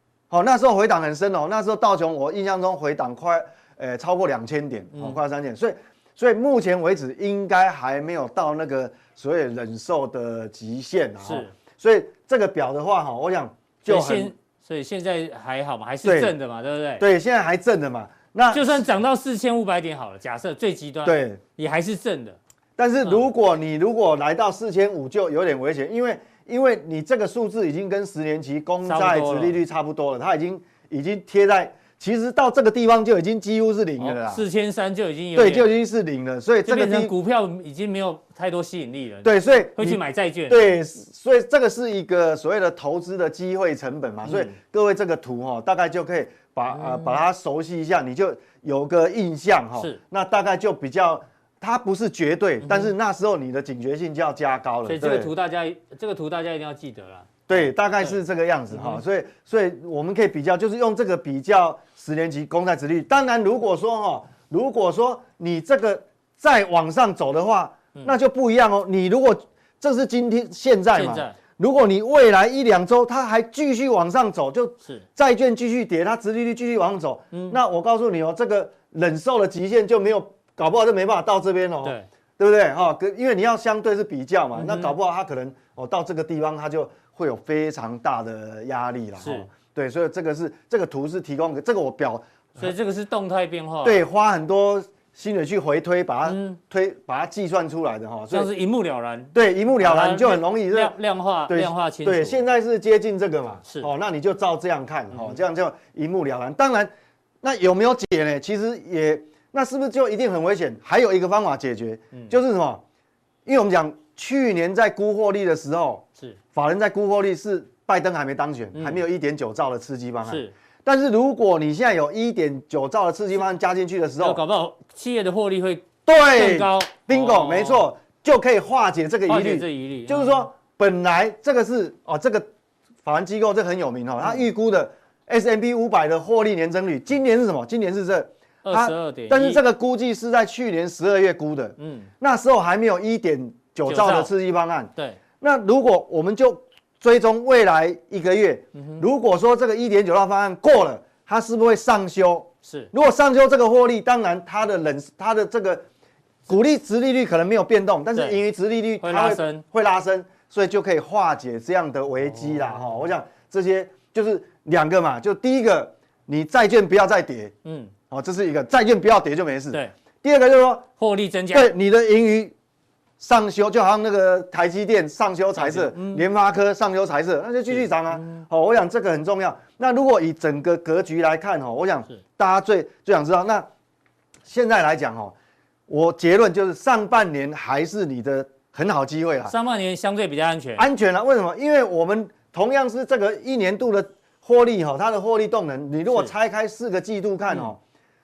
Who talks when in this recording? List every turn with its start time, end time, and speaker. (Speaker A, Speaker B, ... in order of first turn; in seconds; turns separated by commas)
Speaker A: 0.3-14.3, Speaker B: 11.2-11.5, Speaker B: 13.9-17.1, Speaker A: 16.0-16.3, Speaker A: 17.0-18.9, Speaker B: 18.5-22.4, Speaker A: 21.0-21.4, Speaker A: 22.8-34.4, Speaker B: 23.0-23.3, Speaker B: 28.9-29.6, Speaker B: 34.0-35.7, Speaker A: 35.4-37.1, Speaker B: 36.7-40.8, Speaker A: 39.2-55.3, Speaker B: 44.2-44.6, Speaker B: 46.7-47.2, Speaker B: 52.6-52.9, Speaker B: 54.9-58.2, Speaker A: 57.5-92.7, Speaker B: 58.7-59.0, Speaker B: 70.9-71.4, Speaker B: 77.3-77.6, Speaker B: 84.5-85.0, Speaker B: 89.2-89.5, Speaker B: 92.6-94.0, Speaker A: 93.8-98.5, Speaker B: 96.2-96.6, Speaker B: 98.3-102.4, Speaker A: 99.3-101.0, Speaker A: 101.5-106.9, Speaker B: 105.1-105.4, Speaker A: 107.4-112.8, Speaker A: 113.5-124.4, Speaker B: 118.7-119.0, Speaker B: 120.3-120.5, Speaker B: 124.2-127.9, Speaker A: 126.1-132.5, Speaker B: 129.3-130.5, Speaker A: 133.0-155.8, Speaker B: 138.7-139.6, Speaker B: 141.8-142.1, Speaker B: 143.9-144.3, Speaker B: 148.8-149.1, Speaker B: 152.6-152.9, Speaker A: 156.5-167.5, Speaker B: 159.0-159.7, Speaker B: 162.3-163.0, Speaker B: 167.7-167.9, Speaker A: 168.1-170.9, Speaker B: 171.0-171.7, Speaker A: 171.5-172.5, Speaker A: 173.2-183.7, Speaker B: 175.6-176.2, Speaker B: 177.7-178.5, Speaker A: 184.5-185.3, Speaker A: 185.9-189.6, Speaker B: 189.5-190.9, Speaker A: 190.8-197.8